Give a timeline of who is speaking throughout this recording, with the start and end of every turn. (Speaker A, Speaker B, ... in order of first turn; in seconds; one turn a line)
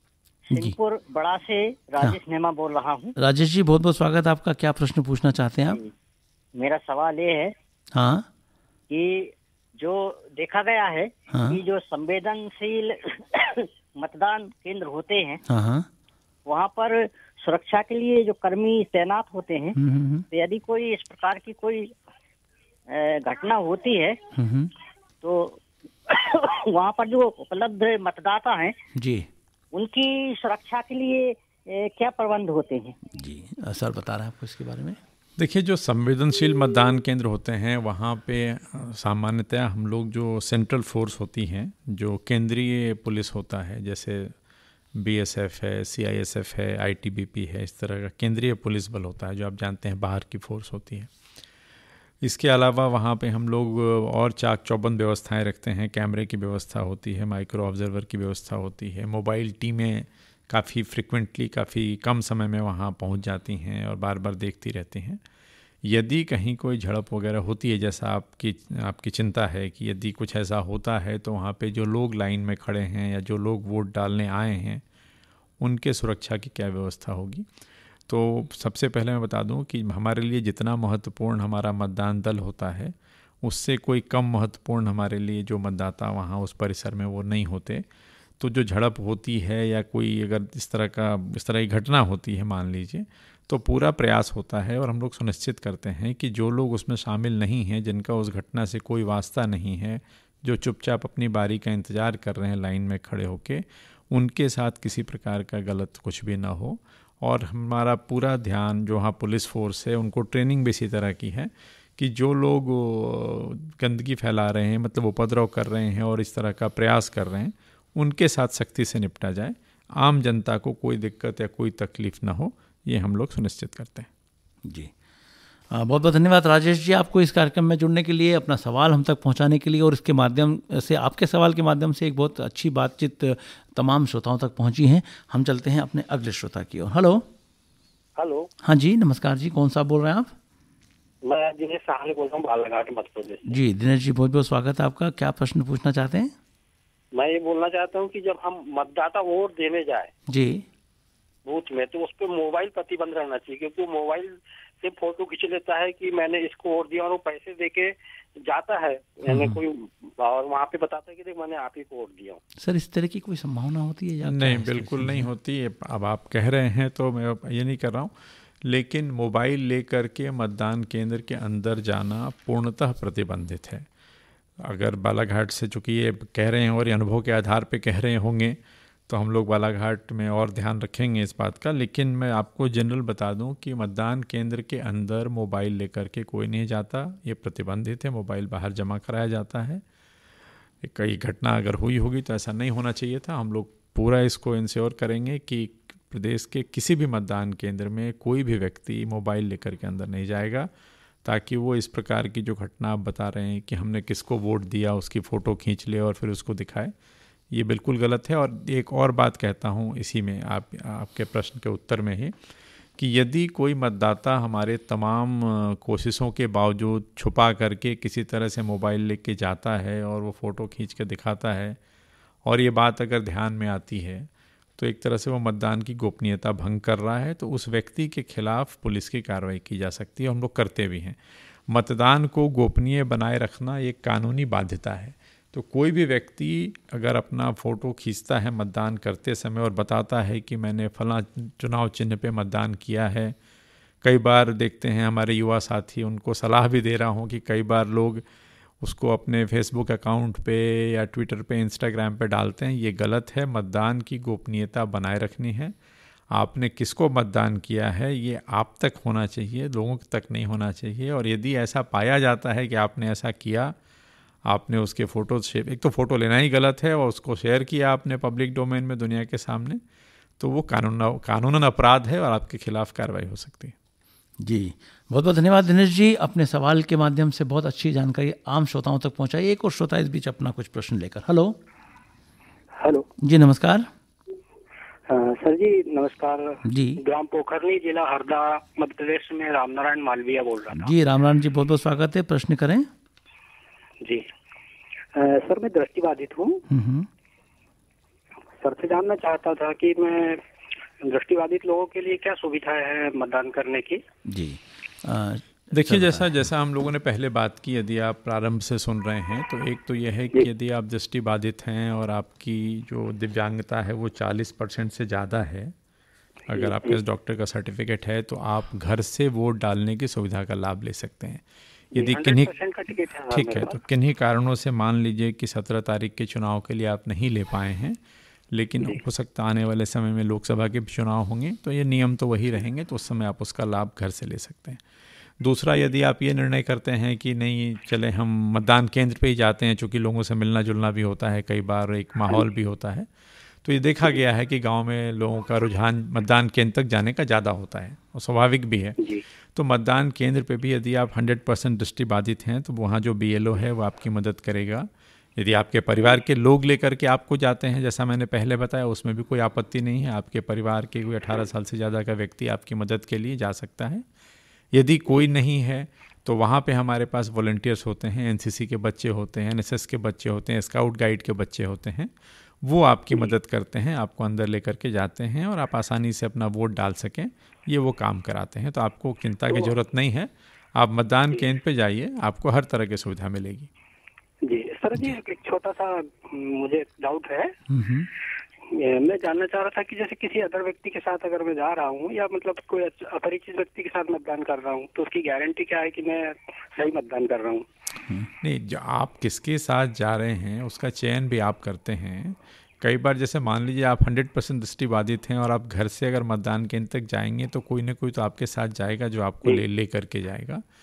Speaker A: 0.5-3.2
Speaker B: 3.2-5.8
Speaker A: 6.6-7.5
Speaker B: 7.9-8.3
Speaker A: 8.9-15.4
Speaker B: 11.3-11.6
Speaker B: 15.5-15.9
Speaker A: 16.5-19.8
Speaker B: 19.8-20.2
Speaker A: 20.3-21.9
Speaker A: 22.9-24.2
Speaker B: 24.4-24.7
Speaker A: 25.2-28.8
Speaker B: 28.9-29.3
Speaker A: 29.7-33.0
Speaker B: 33.1-35.0
Speaker C: 35.4-44.4
Speaker C: 45.0-51.1
Speaker C: 52.2-65.2
Speaker C: 65.8-74.8
Speaker C: 75.6-77.5
Speaker C: 78.1-87.8
Speaker C: 88.4-124.1
Speaker B: 124.7-124.9
Speaker B: 125.7-137.3
Speaker D: 138.2-138.5
Speaker B: 138.6-140.3
Speaker D: 141.2-143.6
Speaker B: 143.5-146.3
Speaker D: 147.1-150.1
Speaker B: 150.3-150.7
Speaker D: 151.5-162.4
Speaker B: 159.3-159.6
Speaker B: 162.6-165.3
Speaker C: 164.2-173.9
Speaker C: 174.6-189.8
Speaker C: 190.8-200.7
Speaker C: 201.2-206.9
Speaker C: 207.5-212.4
Speaker C: 213.0-221.8
Speaker C: 222.4-243.3
Speaker C: 244.0-248.2
Speaker C: 248.8-255.8
Speaker C: 256.3-263.8
Speaker C: 264.5-269.8
Speaker C: 270.4-273.7
Speaker B: 274.4-281.6
Speaker D: 282.8-283.1
Speaker B: 283.2-283.9
Speaker D: 285.1-290.9
Speaker B: 286.6-287.0
Speaker B: 290.7-292.9
Speaker D: 294.0-294.3
Speaker D: 295.1-296.6
Speaker B: 296.7-297.1
Speaker D: 298.6-300.4
Speaker D: 301.0-304.0
Speaker B: 304.3-306.4
Speaker C: 305.7-315.7
Speaker C: 316.5-321.4
Speaker D: 316.5-317.0
Speaker C: 321.9-322.5
Speaker D: 322.0-323.8
Speaker C: 323.3-328.0
Speaker C: 328.5-334.8
Speaker C: 335.4-343.1
Speaker C: 343.6-349.0
Speaker C: 349.6-364.1
Speaker C: 364.7-383.7
Speaker D: 384.4-387.5
Speaker B: 387.7-388.1
Speaker D: 388.7-397.6
Speaker C: 398.4-410.6